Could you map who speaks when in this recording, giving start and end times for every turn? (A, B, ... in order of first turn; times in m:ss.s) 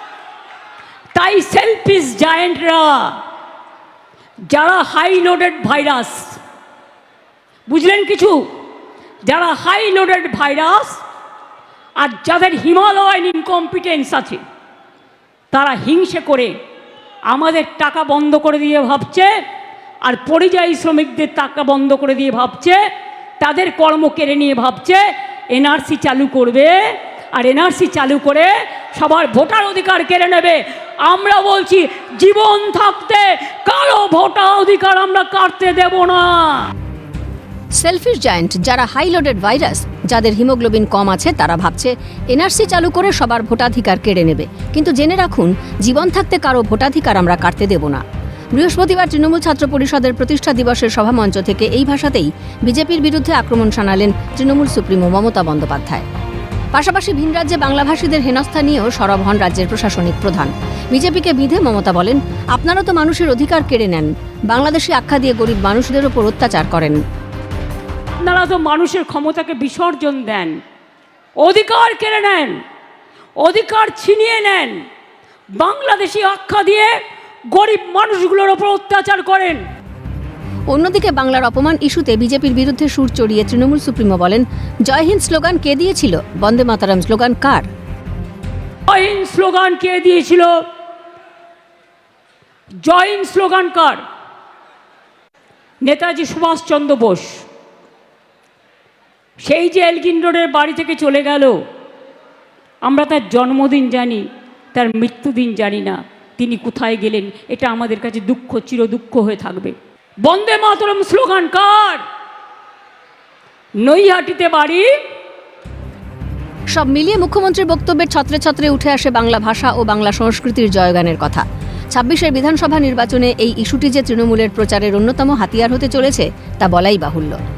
0:01.1-0:03.2 A
0:04.5-0:06.4 A
0:07.7-0:08.4 A
0:09.2-0:11.0 A
0:12.0-0:14.4 A
0:15.5-0:16.5 A
0:17.3-0:19.3 A
0:20.0-0:22.8 A
0:23.4-0:36.7 A
0:37.8-0:48.0 B
0:48.6-0:56.0 B
0:56.7-1:07.0 B
1:08.2-1:10.6 A
1:11.4-1:12.6 A
1:13.4-1:14.8 A
1:15.6-1:16.9 A
1:17.5-1:19.6 A
1:20.7-1:27.7 B
1:28.9-1:30.6 A
1:32.8-1:34.0 A
1:35.8-1:37.4 A
1:39.4-1:41.6 A
1:42.8-1:52.0 A
1:53.8-1:54.9 A
1:56.7-2:07.4 B